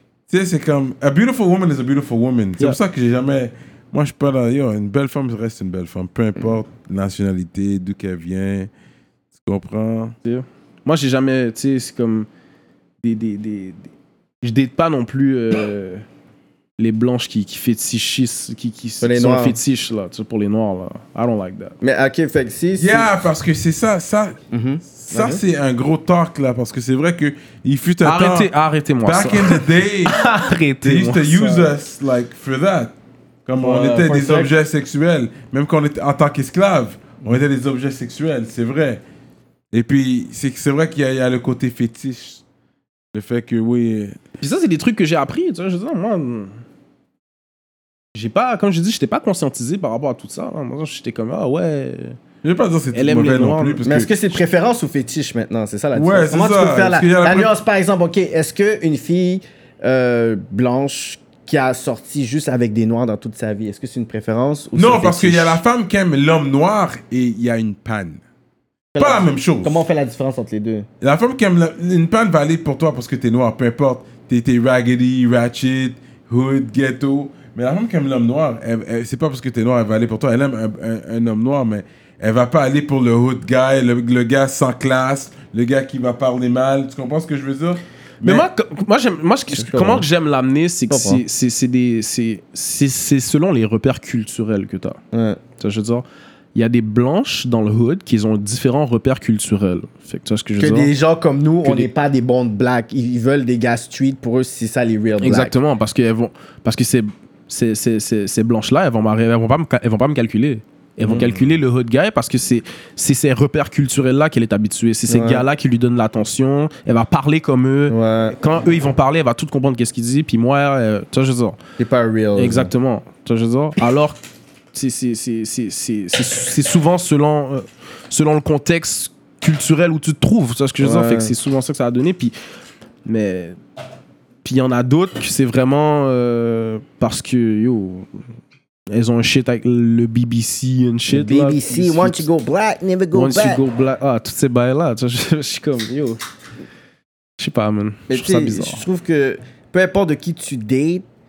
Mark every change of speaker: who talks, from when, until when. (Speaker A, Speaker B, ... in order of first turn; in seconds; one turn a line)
Speaker A: 0.3-8.7
Speaker A: 9.3-10.2
Speaker B: 10.2-12.3
Speaker B: 13.0-13.9
Speaker B: 14.4-16.0
Speaker B: 16.8-21.8
Speaker C: 19.0-19.6
Speaker C: 21.8-23.1
Speaker A: 22.8-24.4
Speaker C: 24.5-25.4
Speaker A: 24.9-30.3
Speaker B: 28.0-31.7
Speaker A: 30.8-32.9
Speaker A: 33.5-39.0
Speaker C: 33.6-34.5
Speaker A: 39.7-42.4
Speaker A: 43.1-44.2
Speaker B: 44.4-46.6
Speaker B: 48.1-52.2
Speaker A: 52.4-54.1
Speaker B: 52.9-53.8
Speaker C: 53.8-65.6
Speaker A: 55.9-57.5
Speaker A: 64.8-68.2
Speaker C: 68.9-70.9
Speaker A: 69.0-69.8
Speaker A: 71.0-88.5
Speaker B: 88.2-95.0
Speaker C: 89.5-90.1
Speaker C: 90.9-91.2
Speaker C: 95.1-95.4
Speaker B: 95.6-100.9
Speaker C: 100.6-105.5
Speaker B: 105.2-121.6
Speaker C: 111.0-111.3
Speaker C: 115.1-115.4
Speaker C: 117.9-118.4
Speaker C: 121.8-122.7
Speaker B: 122.3-124.2
Speaker B: 124.7-132.3
Speaker C: 130.8-131.3
Speaker B: 133.0-133.6
Speaker B: 134.4-138.1
Speaker B: 138.9-142.2
Speaker C: 141.1-143.6
Speaker B: 143.1-146.2
Speaker B: 147.4-148.8
Speaker C: 148.1-151.0